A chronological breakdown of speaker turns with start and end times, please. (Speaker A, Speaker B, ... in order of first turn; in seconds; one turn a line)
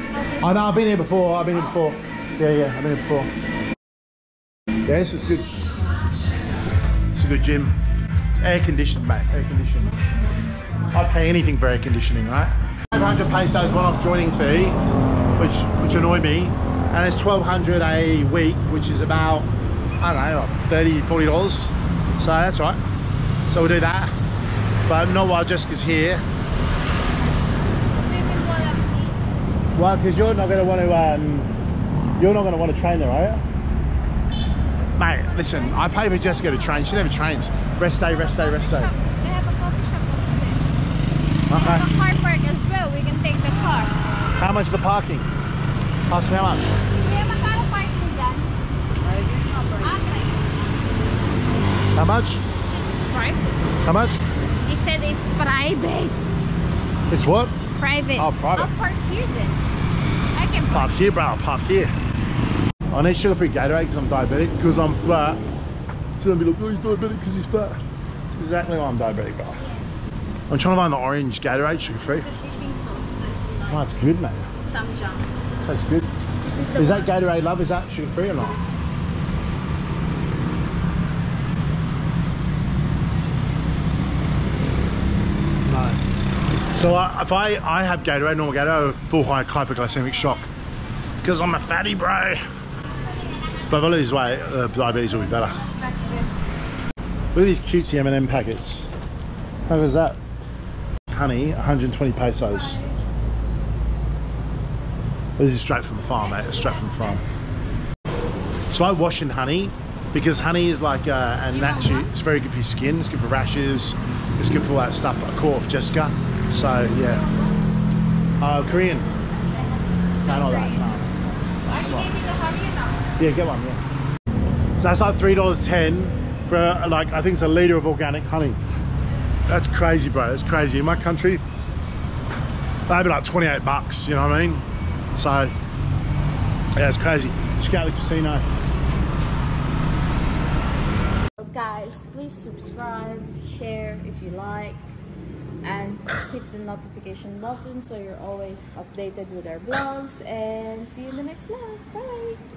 Speaker A: 0.4-3.3
Speaker A: 4.8-5.5
Speaker A: 7.1-7.7
Speaker A: 8.4-9.9
Speaker A: 10.9-14.8
Speaker A: 15.4-22.8
Speaker A: 23.5-24.1
Speaker A: 24.9-26.2
Speaker B: 28.0-29.2
Speaker A: 29.7-31.5
Speaker A: 32.2-33.4
Speaker A: 35.0-38.9
Speaker B: 38.0-40.6
Speaker A: 41.5-41.9
Speaker B: 41.5-43.9
Speaker A: 44.3-45.3
Speaker A: 46.1-46.7
Speaker B: 47.0-48.5
Speaker B: 49.7-50.7
Speaker A: 51.9-52.4
Speaker B: 52.9-53.5
Speaker A: 53.8-54.2
Speaker B: 54.6-56.1
Speaker A: 57.1-57.5
Speaker B: 57.8-59.6
Speaker A: 58.2-58.7
Speaker B: 60.3-61.0
Speaker A: 60.7-61.9
Speaker A: 62.9-65.4
Speaker A: 66.2-67.8
Speaker A: 68.3-69.6
Speaker A: 70.5-72.3
Speaker B: 72.1-73.9
Speaker A: 73.7-74.5
Speaker B: 74.6-75.3
Speaker A: 75.6-76.1
Speaker B: 76.4-77.1
Speaker A: 76.8-78.6
Speaker A: 85.6-86.0
Speaker A: 86.7-90.4
Speaker A: 91.2-92.4
Speaker A: 93.7-95.7
Speaker B: 95.9-96.2
Speaker A: 97.3-98.8
Speaker A: 99.7-100.2
Speaker A: 101.1-102.8
Speaker A: 105.4-107.2
Speaker A: 108.7-117.2
Speaker B: 111.6-112.0
Speaker B: 117.1-117.6
Speaker A: 118.4-119.1
Speaker B: 119.5-120.9
Speaker A: 120.2-121.1
Speaker B: 121.6-123.1
Speaker A: 121.7-122.1
Speaker A: 123.2-123.8
Speaker A: 124.8-128.6
Speaker A: 129.5-131.4
Speaker A: 132.9-134.6
Speaker A: 135.1-135.5
Speaker A: 136.8-138.4
Speaker B: 141.4-142.3
Speaker C: 142.1-144.8
Speaker C: 145.6-152.4